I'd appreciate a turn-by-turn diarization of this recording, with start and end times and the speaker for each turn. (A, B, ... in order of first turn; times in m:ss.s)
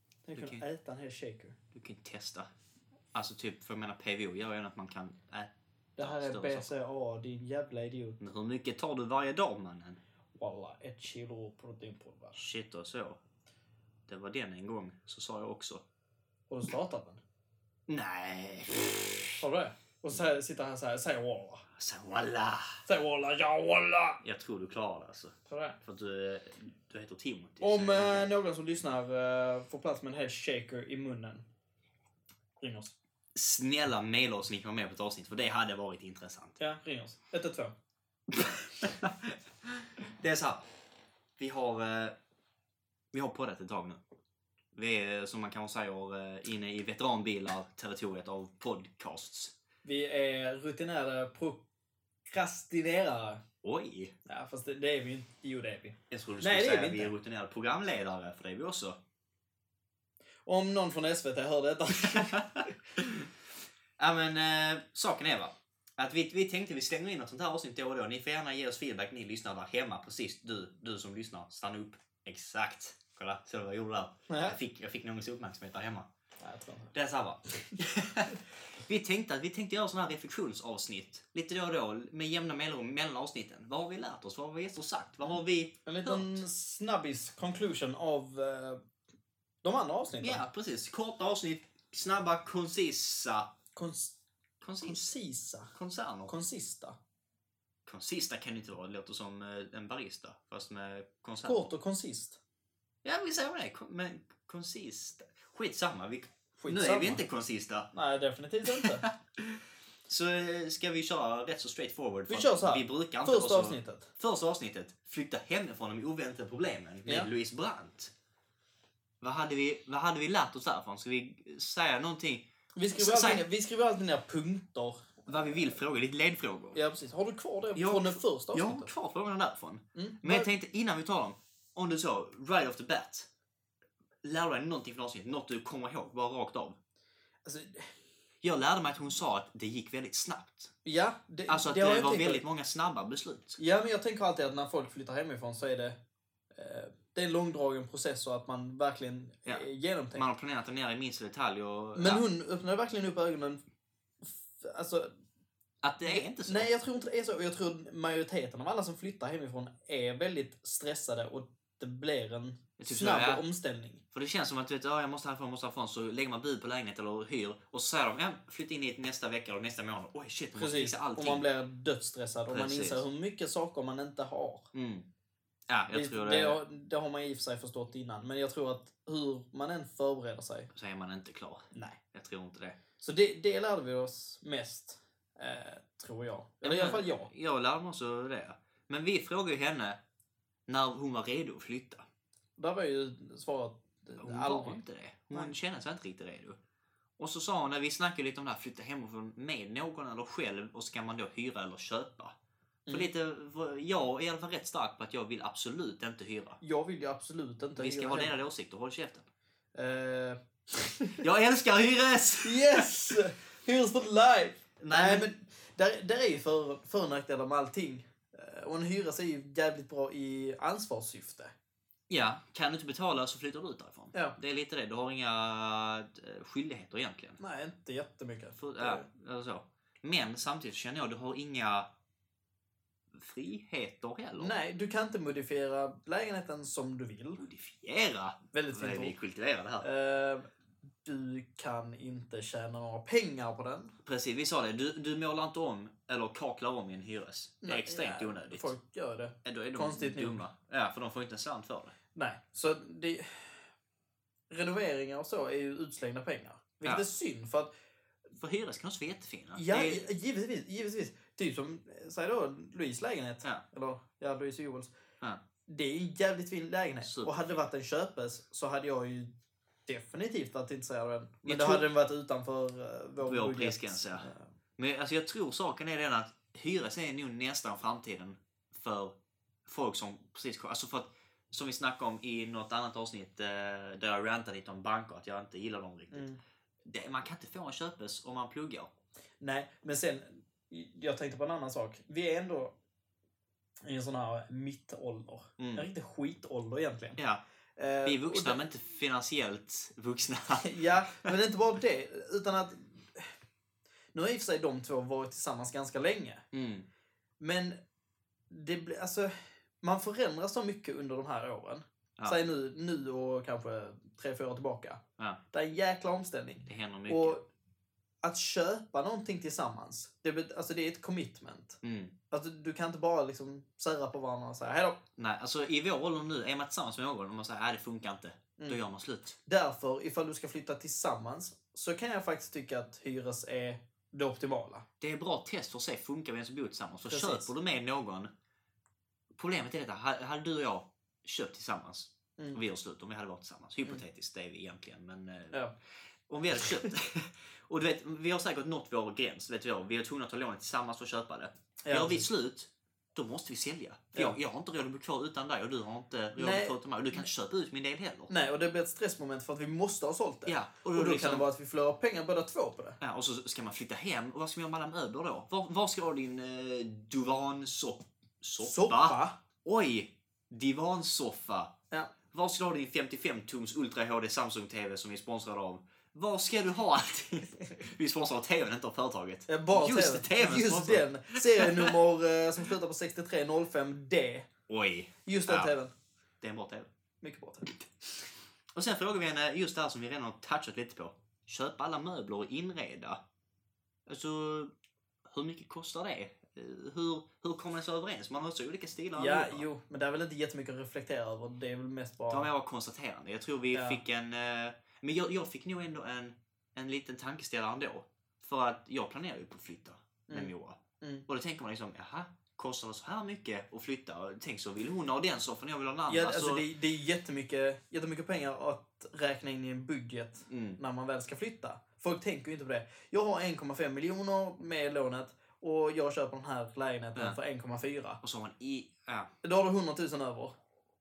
0:00.2-0:01.6 A
0:00.3-0:00.6 B
0:01.7-0:02.5 B
0:03.1-0:06.7 B
0:06.0-0:08.2 A
0:08.2-0:10.0 B
0:10.4-0:12.4 A
0:12.4-0:13.2 B
0:14.1-0:15.8 B
0:16.5-0:17.2 A
0:17.9-0:19.4 B
0:19.4-0:21.7 A
0:21.8-0:22.8 B
0:22.9-0:24.2 A
0:24.2-0:28.3 B
0:25.5-0:25.8 A
0:27.6-0:31.5 A
0:32.6-0:33.0 A
0:33.4-0:36.6 B
0:36.6-0:37.7 A
0:38.4-0:40.7 B
0:41.4-0:42.2 B
0:43.1-0:44.0 B
0:44.7-0:49.5 B
0:49.8-0:51.6 A
0:52.3-0:53.4 A
0:53.6-0:54.2 B
0:54.2-0:57.1 A
0:56.1-0:59.0 B
1:00.5-1:02.8 A
1:02.0-1:03.3 B
1:04.0-1:16.1 B
1:14.3-1:14.6 A
1:16.4-1:17.0 A
1:16.9-1:26.4 B
1:25.9-1:28.8 A
1:29.6-1:30.4 A
1:30.2-1:33.5 B
1:33.8-1:34.2 A
1:34.6-1:35.2 B
1:34.8-1:35.7 A
1:35.7-1:36.3 B
1:36.3-1:37.0 A
1:37.9-1:41.7 B
1:41.4-1:42.4 A
1:43.0-1:47.9 B
1:46.6-1:47.2 A
1:47.9-1:49.1 A
1:48.7-1:58.1 B
1:52.3-1:54.1 A
1:59.2-2:03.5 B
2:02.8-2:05.6 A
2:05.3-2:06.8 B
2:06.8-2:08.9 A
2:07.8-2:13.3 B
2:10.0-2:10.5 A
2:14.2-2:16.8 B
2:17.4-2:17.9 A
2:18.4-2:20.7 B
2:20.8-2:22.4 A
2:21.5-2:23.6 B
2:23.6-2:26.0 A
2:26.5-2:30.3 A
2:29.5-2:32.2 B
2:32.0-2:33.6 A
2:34.2-2:35.1 A
2:35.8-2:36.7 B
2:36.0-2:44.0 A
2:42.8-2:43.4 B
2:44.1-2:51.5 B
2:50.6-2:54.7 A
2:52.5-2:53.0 B
2:54.7-2:55.1 B
2:55.7-2:56.6 B
2:55.9-3:00.7 A
3:00.7-3:02.8 B
3:01.7-3:02.0 A
3:03.0-3:07.3 A
3:06.6-3:10.0 B
3:10.7-3:12.1 B
3:12.6-3:15.6 A
3:14.2-3:16.6 B
3:17.2-3:22.4 B
3:22.9-3:26.6 B
3:26.6-3:28.4 A
3:27.8-3:29.3 B
3:29.8-3:31.2 A
3:31.2-3:33.2 B
3:32.4-3:41.5 A
3:34.8-3:35.3 B
3:42.1-3:47.4 B
3:47.4-3:49.1 A
3:48.6-3:51.9 B
3:53.1-3:54.6 B
3:54.4-3:57.4 A
3:57.4-3:59.9 B
3:58.5-3:59.2 A
3:59.8-4:00.5 A
4:01.0-4:04.0 A
4:04.0-4:08.7 B
4:07.6-4:10.4 A
4:09.4-4:11.9 B
4:12.2-4:13.6 A
4:14.5-4:17.7 A
4:18.4-4:20.0 B
4:19.6-4:24.9 A
4:25.7-4:29.3 A
4:27.0-4:27.6 B
4:29.9-4:34.5 A
4:31.4-4:31.9 B
4:33.2-4:46.3 B
4:46.1-4:46.4 A
4:46.9-4:48.9 B
4:49.4-4:52.8 A
4:53.8-4:57.2 A
4:55.6-4:55.9 B
4:57.2-4:57.4 B
4:57.8-4:58.6 A
4:58.0-5:00.7 B
5:00.6-5:03.3 A
5:04.1-5:06.4 A
5:06.5-5:06.9 B
5:07.4-5:07.8 A
5:08.5-5:17.4 A
5:16.7-5:17.4 B
5:18.2-5:21.8 A
5:21.8-5:22.1 B
5:22.3-5:25.0 A
5:25.2-5:29.4 B
5:29.5-5:34.9 A
5:35.0-5:38.3 B
5:37.1-5:37.5 A
5:39.3-5:45.6 B
5:46.3-5:58.3 B
5:51.8-5:52.3 A
5:56.4-5:56.8 A
5:58.3-6:03.0 A
6:00.5-6:01.5 B
6:03.0-6:11.7 B
6:08.6-6:09.4 A
6:12.3-6:22.0 B
6:19.5-6:24.5 A
6:24.7-6:25.7 B
6:25.3-6:25.9 A
6:26.4-6:26.9 B
6:27.2-6:27.8 A
6:28.7-6:33.2 B
6:34.1-6:34.7 B
6:35.3-6:39.7 B
6:39.2-6:42.5 A
6:42.3-6:56.6 B
6:43.7-6:44.0 A
6:50.3-6:51.2 A
6:56.1-7:08.2 A
7:00.5-7:00.8 B
7:08.2-7:09.3 B
7:09.4-7:10.6 A